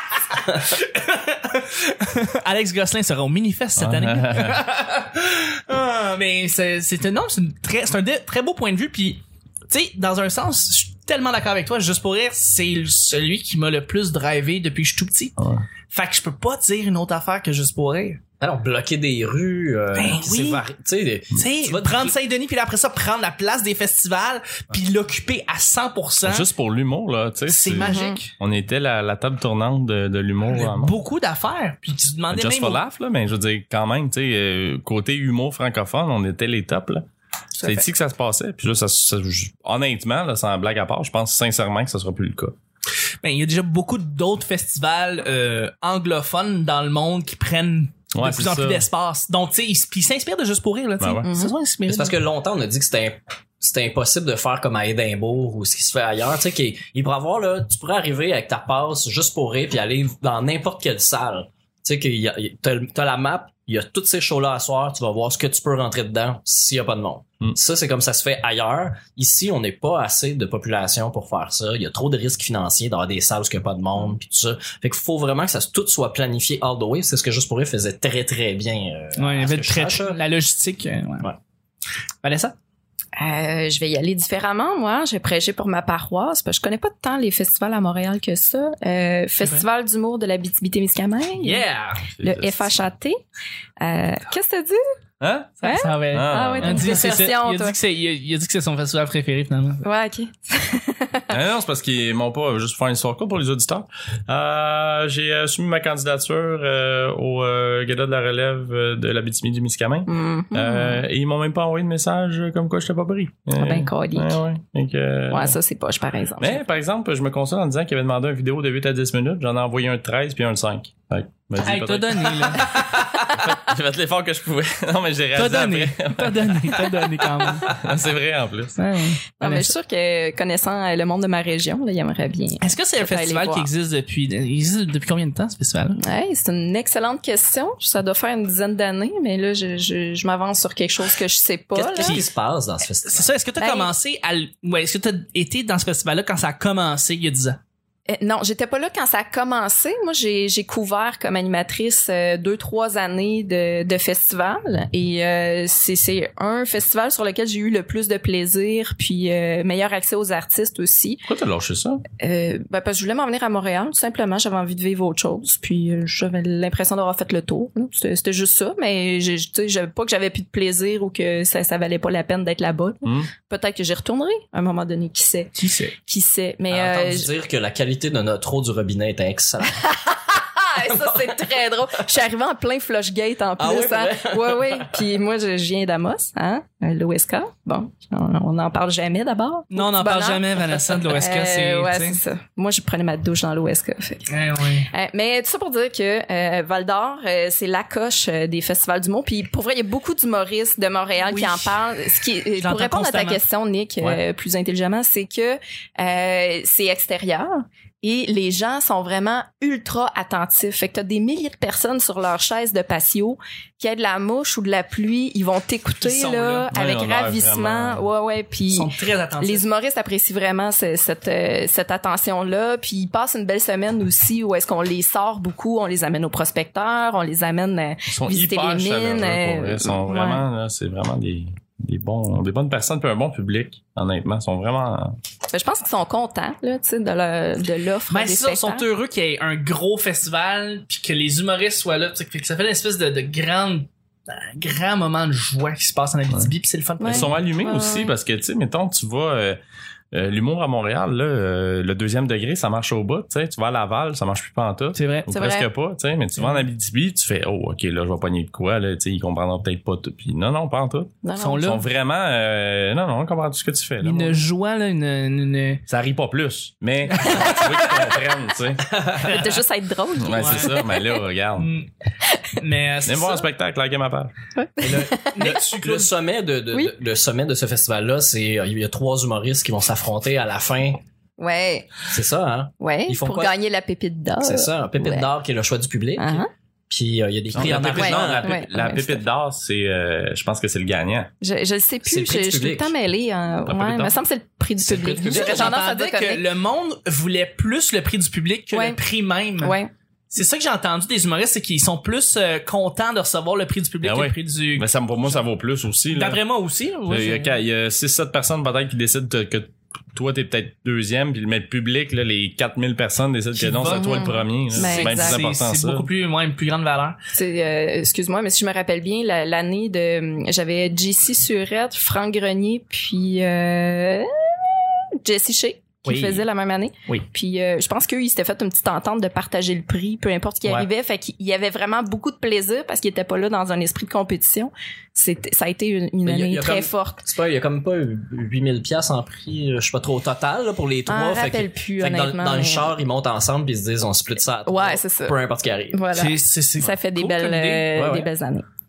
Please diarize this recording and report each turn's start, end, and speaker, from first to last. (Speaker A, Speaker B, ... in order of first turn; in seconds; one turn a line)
Speaker A: 0.6-15.4
Speaker B: 3.8-4.6
Speaker B: 15.4-15.6
Speaker A: 15.9-18.2
Speaker C: 18.4-22.1
Speaker A: 19.9-20.6
Speaker A: 21.3-26.5
Speaker B: 26.2-31.0
Speaker A: 27.5-28.3
Speaker D: 27.8-28.2
Speaker A: 30.5-32.8
Speaker B: 32.3-37.1
Speaker B: 37.6-42.5
Speaker A: 43.2-52.2
Speaker B: 48.1-48.9
Speaker B: 51.0-51.3
Speaker D: 51.2-51.5
Speaker C: 51.9-80.2
Speaker A: 79.2-81.3
Speaker A: 82.2-82.5
Speaker D: 83.2-91.6
Speaker A: 89.4-89.7
Speaker A: 91.4-92.0
Speaker B: 92.2-92.7
Speaker D: 92.2-93.2
Speaker D: 93.8-94.8
Speaker B: 95.2-96.9
Speaker D: 95.6-97.8
Speaker A: 95.6-99.8
Speaker D: 99.8-101.4
Speaker B: 101.3-115.6
Speaker D: 110.1-111.0
Speaker D: 113.6-114.4
Speaker D: 115.3-116.6
Speaker B: 116.4-128.8
Speaker A: 121.6-122.9
Speaker D: 122.8-123.5
Speaker A: 125.4-127.7
Speaker A: 128.8-129.7
Speaker D: 129.4-133.7
Speaker A: 132.6-136.0
Speaker D: 136.0-142.2
Speaker C: 141.8-143.3
Speaker A: 142.0-142.2
Speaker A: 143.1-147.6
Speaker D: 143.6-143.9
Speaker D: 148.1-161.2
Speaker B: 161.3-162.0
Speaker D: 162.2-175.5
Speaker B: 173.1-173.3
Speaker A: 175.6-175.9
Speaker D: 176.1-177.3
Speaker C: 176.7-179.8
Speaker D: 179.8-194.3
Speaker C: 180.9-181.5
Speaker C: 183.6-185.0
Speaker A: 189.7-192.2
Speaker A: 194.3-194.9
Speaker D: 194.9-230.4
Speaker A: 201.3-201.8
Speaker A: 202.6-203.4
Speaker A: 216.0-216.7
Speaker B: 216.7-218.1
Speaker A: 218.7-219.6
Speaker B: 228.1-235.2
Speaker D: 235.5-238.9
Speaker A: 238.1-247.3
Speaker D: 247.0-248.1
Speaker B: 247.1-249.6
Speaker B: 250.1-264.4
Speaker A: 254.9-255.3
Speaker D: 255.3-255.7
Speaker D: 261.2-261.8
Speaker A: 261.4-261.8
Speaker A: 264.0-265.8
Speaker B: 265.9-269.3
Speaker A: 267.2-267.6
Speaker D: 267.2-268.1
Speaker D: 269.1-271.1
Speaker B: 270.2-271.7
Speaker A: 270.3-270.8
Speaker A: 271.6-271.9
Speaker A: 272.6-273.5
Speaker B: 273.1-274.3
Speaker D: 274.6-275.5
Speaker C: 274.8-281.0
Speaker A: 275.3-276.1
Speaker D: 281.4-282.1
Speaker C: 282.1-283.5
Speaker D: 282.8-285.3
Speaker C: 284.4-288.6
Speaker D: 286.2-286.5
Speaker B: 287.5-291.3
Speaker D: 287.9-289.2
Speaker D: 291.4-296.4
Speaker C: 292.1-292.9
Speaker B: 293.7-294.2
Speaker C: 294.9-295.8
Speaker A: 295.1-299.8
Speaker D: 298.7-299.0
Speaker D: 299.6-299.9
Speaker A: 300.3-304.9
Speaker B: 304.0-306.4
Speaker A: 306.1-307.6
Speaker B: 307.1-316.1
Speaker A: 313.6-317.2
Speaker D: 313.8-315.4
Speaker D: 317.3-337.2
Speaker A: 326.1-326.5
Speaker C: 336.2-346.0
Speaker D: 341.1-342.9
Speaker D: 344.6-345.4
Speaker D: 345.9-348.7
Speaker A: 346.1-347.9
Speaker C: 347.9-348.3